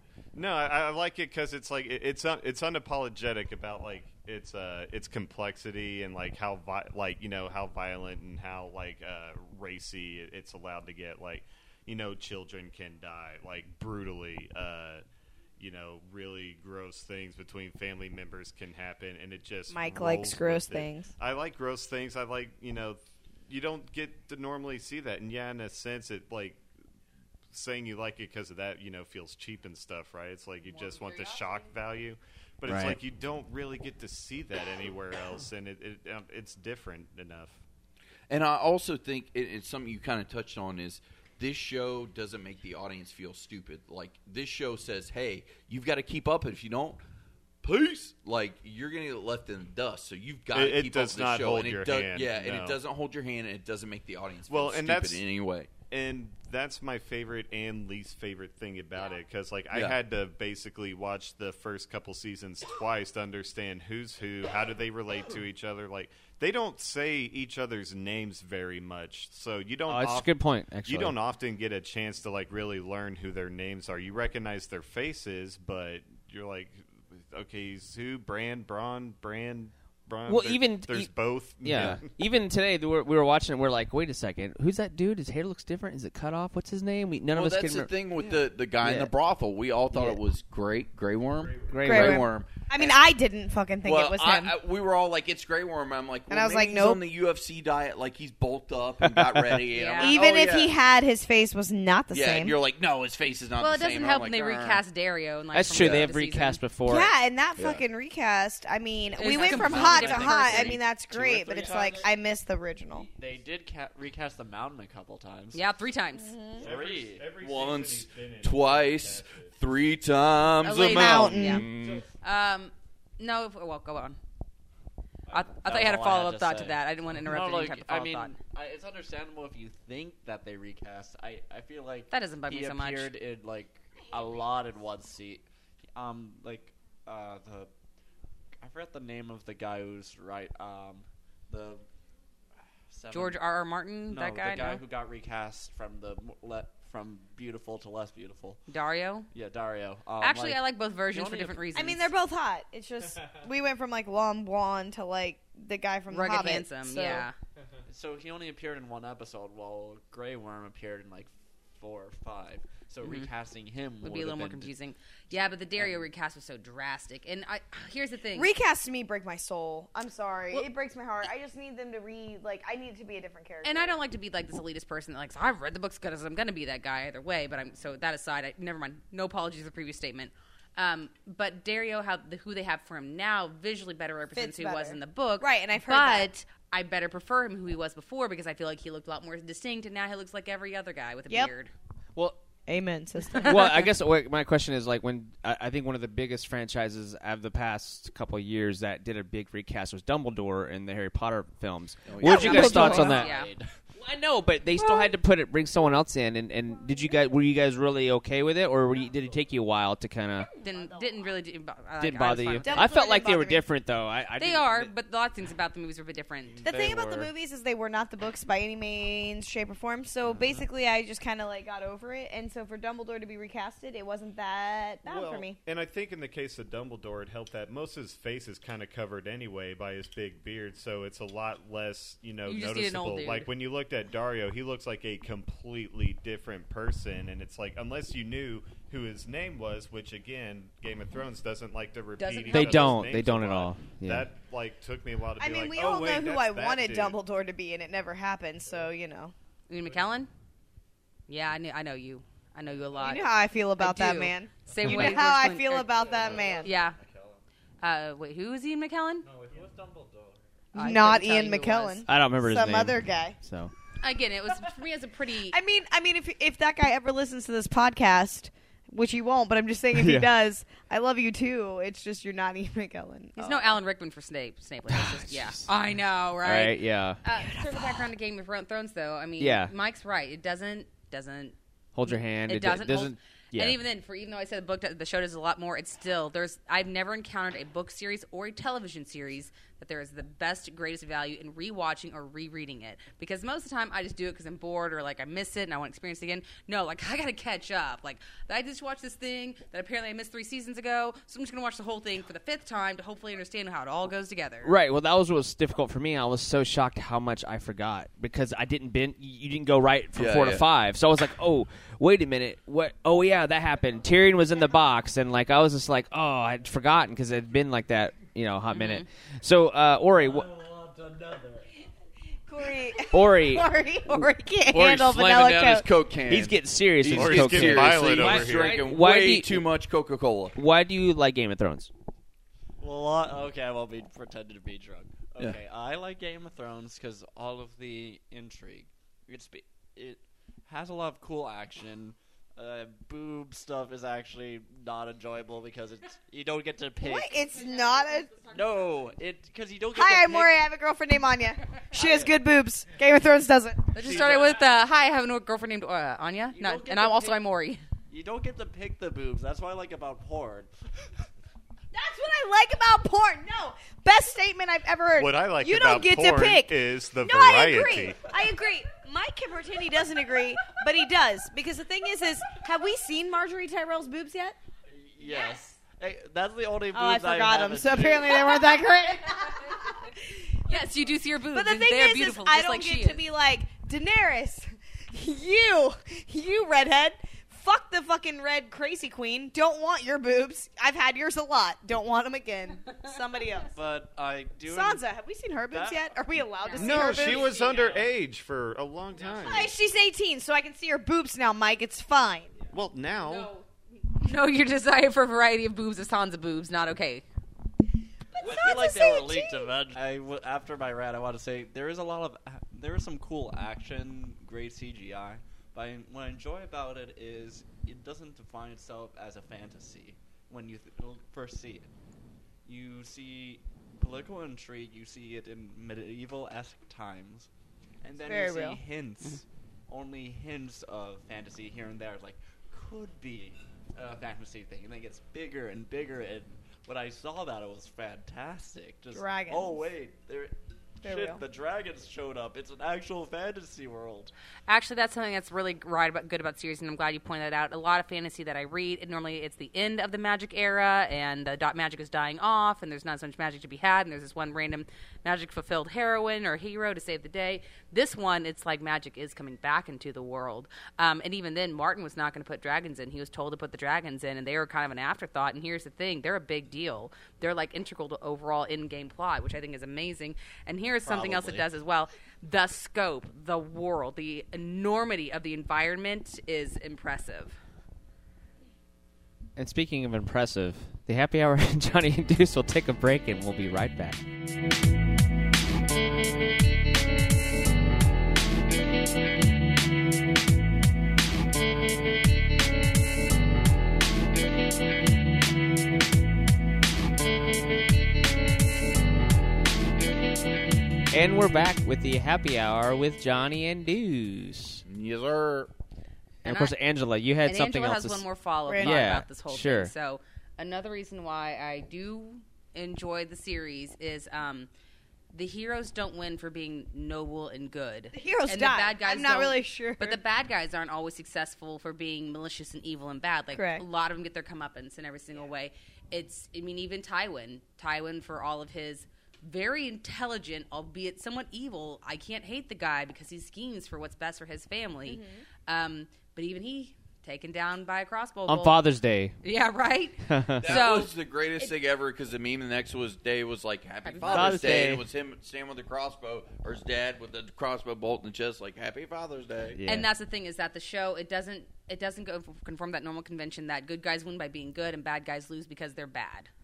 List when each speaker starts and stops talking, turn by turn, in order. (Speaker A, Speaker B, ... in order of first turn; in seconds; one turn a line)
Speaker A: 0.3-15.0
Speaker A: 15.6-26.6
Speaker B: 19.7-21.1
Speaker A: 27.5-37.6
Speaker C: 32.7-33.0
Speaker D: 38.3-47.0
Speaker D: 47.6-55.7
Speaker A: 50.5-52.8
Speaker A: 54.5-55.2
Speaker A: 55.9-82.1
Speaker D: 59.7-60.0
Speaker C: 69.9-71.2
Speaker C: 80.3-89.1
Speaker D: 81.7-82.0
Speaker D: 87.3-93.0
Speaker C: 89.9-90.2
Speaker C: 91.7-92.3
Speaker B: 91.8-94.5
Speaker D: 93.8-100.8
Speaker B: 96.3-97.0
Speaker C: 99.0-99.6
Speaker E: 99.7-100.2
Speaker B: 100.0-102.6
Speaker D: 102.1-104.8
Speaker E: 103.6-106.6
Speaker C: 105.5-107.1
Speaker D: 105.7-106.1
Speaker B: 106.9-113.1
Speaker D: 107.6-107.8
Speaker E: 109.2-110.8
Speaker F: 109.2-112.1
Speaker F: 113.1-115.6
Speaker E: 115.5-116.4
Speaker B: 116.2-116.7
Speaker F: 116.6-117.3
Speaker A: 116.6-119.6
Speaker D: 117.4-121.8
Speaker E: 120.6-124.2
Speaker B: 120.8-121.7
Speaker C: 121.4-122.0
Speaker E: 125.3-128.4
Speaker F: 125.3-137.7
Speaker E: 132.1-133.1
Speaker F: 138.6-141.8
Speaker F: 142.9-143.4
Speaker E: 143.1-144.8
Speaker F: 144.1-148.6
Speaker E: 148.7-149.3
Speaker F: 149.3-151.7
Speaker E: 150.2-152.1
Speaker B: 151.8-157.3
Speaker E: 156.1-157.3
Speaker F: 157.9-164.7
Speaker E: 163.0-163.3
Speaker E: 164.0-168.5
Speaker F: 165.8-166.0
Speaker B: 168.3-174.0
Speaker E: 173.6-191.7
Speaker B: 184.3-186.3
Speaker B: 192.7-193.8
Speaker C: 193.4-203.3
Speaker D: 202.1-203.0
Speaker B: 202.2-203.2
Speaker E: 202.2-203.5
Speaker F: 202.4-203.7
Speaker C: 204.0-210.5
Speaker B: 204.8-205.1
Speaker B: 210.6-211.1
Speaker E: 210.6-212.9
Speaker C: 212.0-214.9
Speaker B: 212.7-213.7
Speaker E: 214.4-216.6
Speaker C: 216.6-217.3
Speaker B: 216.6-225.6
Speaker A: 225.1-247.2
Speaker E: 232.5-233.5
Speaker E: 242.2-243.0
Speaker C: 242.5-244.3
Speaker B: 245.4-249.3
Speaker E: 249.7-250.3
Speaker E: 251.3-253.3
Speaker B: 253.0-256.7
Speaker E: 253.8-257.0
Speaker C: 254.8-255.2
Speaker F: 255.9-257.4
Speaker E: 257.8-259.3
Speaker F: 259.2-260.4
Speaker E: 260.7-262.1
Speaker B: 260.7-263.4
Speaker C: 262.1-263.7
Speaker E: 264.0-265.6
Speaker B: 265.5-273.8
Speaker C: 269.9-270.3
Speaker E: 273.4-304.7
Speaker C: 274.9-275.7
Speaker C: 276.4-277.2
Speaker B: 277.4-278.1
Speaker C: 279.4-279.7
Speaker C: 281.9-283.8
Speaker C: 304.6-320.6
Speaker D: 310.1-310.7
Speaker E: 318.7-319.1
Speaker F: 320.6-321.6
Speaker B: 322.5-325.9
Speaker C: 323.1-323.7
Speaker D: 324.7-330.6
Speaker C: 326.3-329.6
Speaker A: 327.1-328.8
Speaker C: 330.6-331.9
Speaker F: 332.8-347.4
Speaker B: 347.0-348.5
Speaker F: 348.5-350.6
Speaker B: 349.9-354.1
Speaker F: 352.0-352.4
Speaker E: 353.9-357.8
Speaker F: 354.0-354.6
Speaker F: 356.5-357.4
Speaker F: 358.1-360.7
Speaker B: 361.9-374.6
Speaker A: 365.2-368.3
Speaker F: 374.9-378.6
Speaker B: 376.9-380.8
Speaker E: 380.6-383.2
Speaker B: 381.5-393.7
Speaker F: 393.7-395.0
Speaker B: 394.7-397.6
Speaker F: 395.7-398.1
Speaker E: 396.6-397.4
Speaker A: 396.8-399.7
Speaker F: 399.2-399.6
Speaker B: 399.4-402.5
Speaker A: 402.7-403.5
Speaker E: 403.2-407.2
Speaker B: 408.4-409.7
Speaker F: 408.4-421.9
Speaker F: 422.6-427.5
Speaker F: 428.0-444.3
Speaker B: 428.2-428.8
Speaker B: 439.1-439.9
Speaker B: 441.0-441.4
Speaker E: 444.7-477.6
Speaker F: 471.0-471.7
Speaker C: 479.6-484.2
Speaker C: 501.1-504.8
Speaker D: 504.9-505.7
Speaker C: 506.4-508.2
Speaker E: 506.4-506.8
Speaker E: 507.4-514.7
Speaker B: 508.7-509.1
Speaker C: 508.8-509.9
Speaker E: 515.3-538.8
Speaker B: 518.1-520.2
Speaker B: 523.5-523.9
Speaker B: 535.1-535.4
Speaker C: 538.5-539.4
Speaker E: 539.4-541.7
Speaker C: 540.3-540.8
Speaker D: 540.6-549.8
Speaker E: 544.0-544.8
Speaker C: 544.3-545.0
Speaker C: 549.7-550.1
Speaker E: 549.9-556.5